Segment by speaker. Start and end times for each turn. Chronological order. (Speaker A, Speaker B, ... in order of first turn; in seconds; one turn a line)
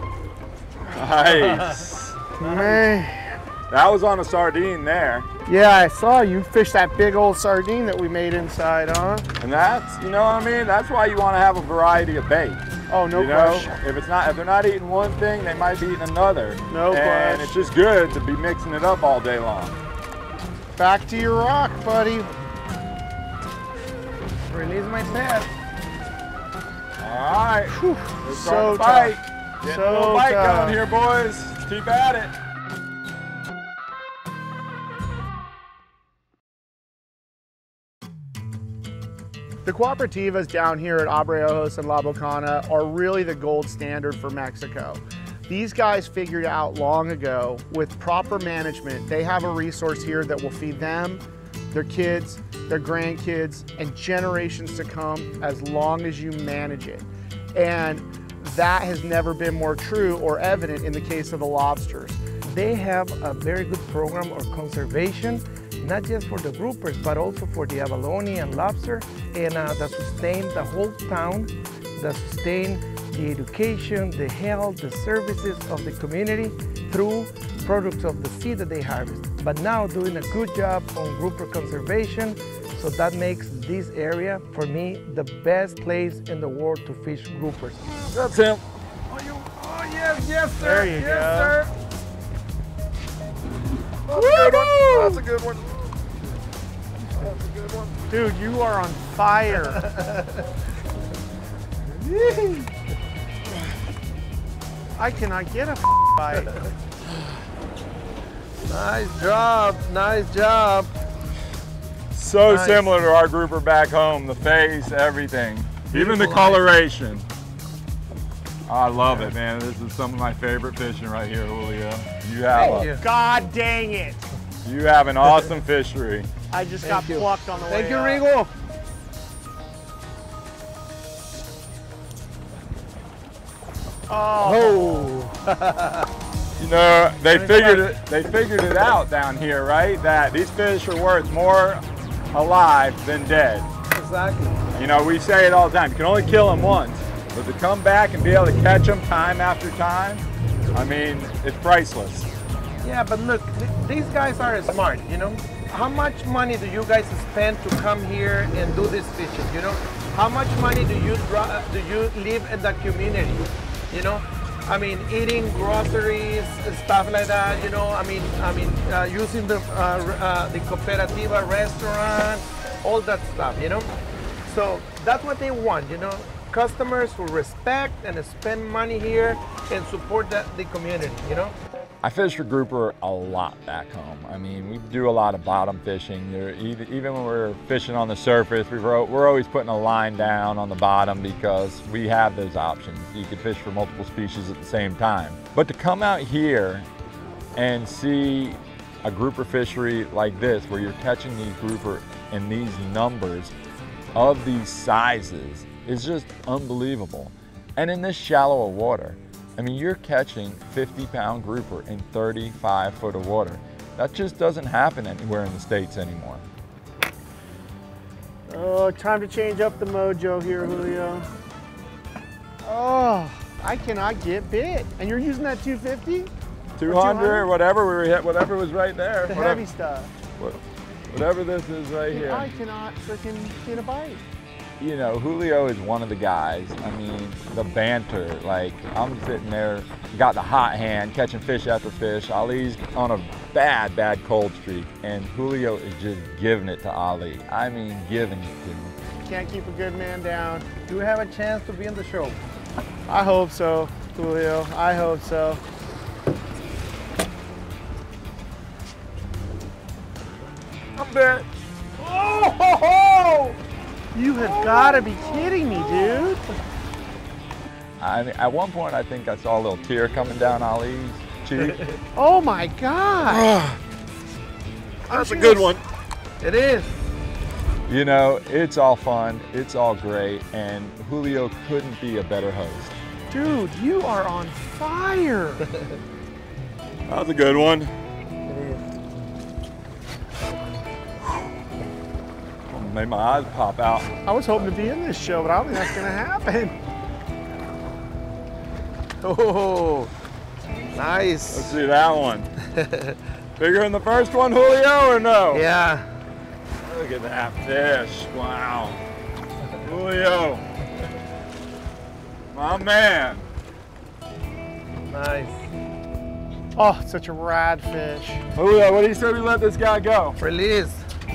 Speaker A: 0.8-2.2
Speaker B: 2.4-3.4
Speaker A: 3.7-5.3
Speaker B: 5.5-9.3
Speaker A: 9.4-19.8
Speaker B: 12.9-13.8
Speaker B: 16.7-17.7
Speaker B: 20.8-22.3
Speaker C: 24.5-25.5
Speaker A: 27.0-32.3
Speaker B: 27.7-30.8
Speaker B: 39.6-62.2
Speaker C: 62.5-87.8
Speaker A: 87.8-88.6
Speaker C: 89.1-91.7
Speaker B: 90.6-91.6
Speaker A: 94.1-95.8
Speaker C: 94.1-95.2
Speaker A: 97.1-97.9
Speaker B: 98.1-99.8
Speaker C: 99.8-100.4
Speaker A: 102.2-102.5
Speaker C: 102.2-102.5
Speaker B: 105.0-106.6
Speaker C: 108.7-110.9
Speaker A: 112.1-117.3
Speaker C: 112.5-112.9
Speaker C: 115.9-116.7
Speaker A: 118.7-122.9
Speaker C: 122.5-123.0
Speaker B: 122.6-124.2
Speaker A: 124.6-126.3
Speaker B: 126.5-128.2
Speaker C: 126.8-128.5
Speaker B: 134.1-135.1
Speaker C: 134.4-136.1
Speaker A: 136.6-143.7
Speaker C: 137.2-137.9
Speaker C: 143.9-144.6
Speaker A: 144.7-152.3
Speaker C: 152.8-173.9
Speaker C: 174.4-181.6
Speaker A: 182.0-196.9
Speaker A: 197.6-203.5
Speaker A: 204.1-216.4
Speaker B: 218.5-221.3
Speaker B: 222.6-226.3
Speaker A: 226.8-229.6
Speaker B: 226.8-227.5
Speaker B: 229.3-230.1
Speaker A: 230.4-232.5
Speaker B: 232.1-234.2
Speaker A: 234.8-248.9
Speaker B: 249.2-250.7
Speaker C: 250.8-252.4
Speaker B: 253.1-255.6
Speaker A: 261.0-261.4
Speaker A: 262.0-263.6
Speaker B: 264.1-266.5
Speaker A: 264.4-266.3
Speaker A: 268.0-271.8
Speaker C: 271.6-272.0
Speaker B: 272.1-273.5
Speaker A: 273.2-273.8
Speaker B: 275.1-275.8
Speaker A: 275.1-275.8
Speaker C: 276.4-276.9
Speaker A: 277.9-282.9
Speaker B: 283.3-285.7
Speaker A: 287.1-287.9
Speaker C: 288.5-288.9
Speaker A: 292.7-294.1
Speaker B: 294.2-296.8
Speaker C: 299.2-300.1
Speaker C: 300.9-301.8
Speaker A: 301.5-302.5
Speaker C: 302.7-303.1
Speaker A: 303.6-305.7
Speaker C: 305.5-306.1
Speaker A: 306.9-309.0
Speaker A: 309.8-310.6
Speaker A: 312.5-313.4
Speaker C: 315.1-315.6
Speaker B: 316.8-318.4
Speaker A: 318.5-320.4
Speaker C: 320.4-321.1